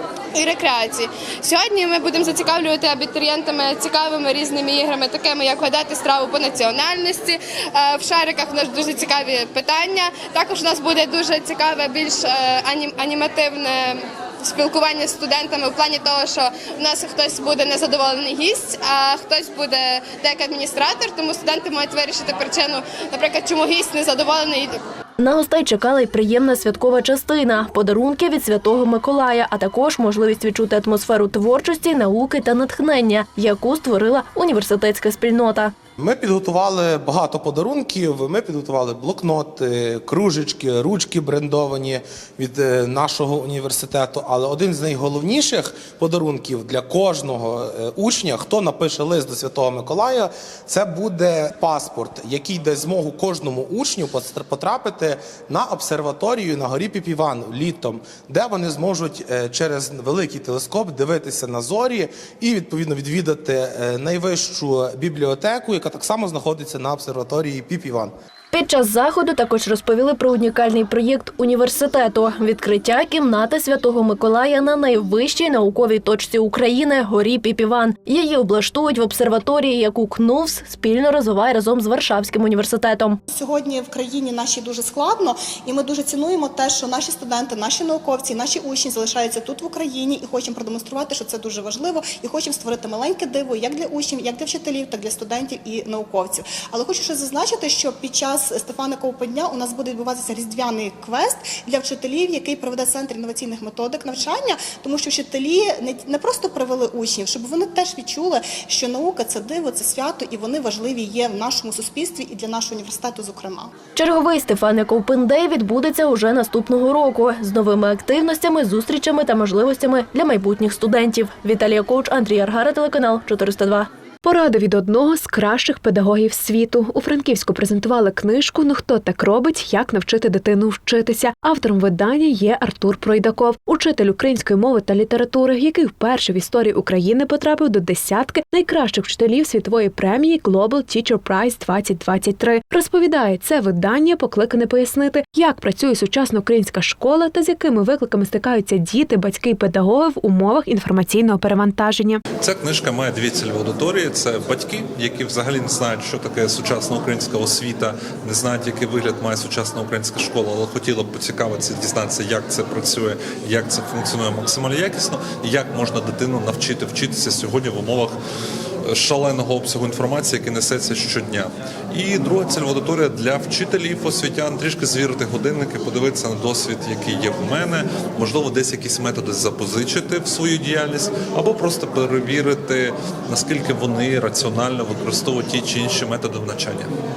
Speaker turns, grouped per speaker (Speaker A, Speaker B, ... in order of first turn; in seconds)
Speaker A: 0.3-24.7
Speaker B: 25.2-35.7, 68.5-83.2, 114.0-123.9
Speaker C: 36.0-68.1
Speaker D: 83.3-113.7
Speaker E: 124.2-152.2
Speaker F: 152.4-168.1, 168.8-186.9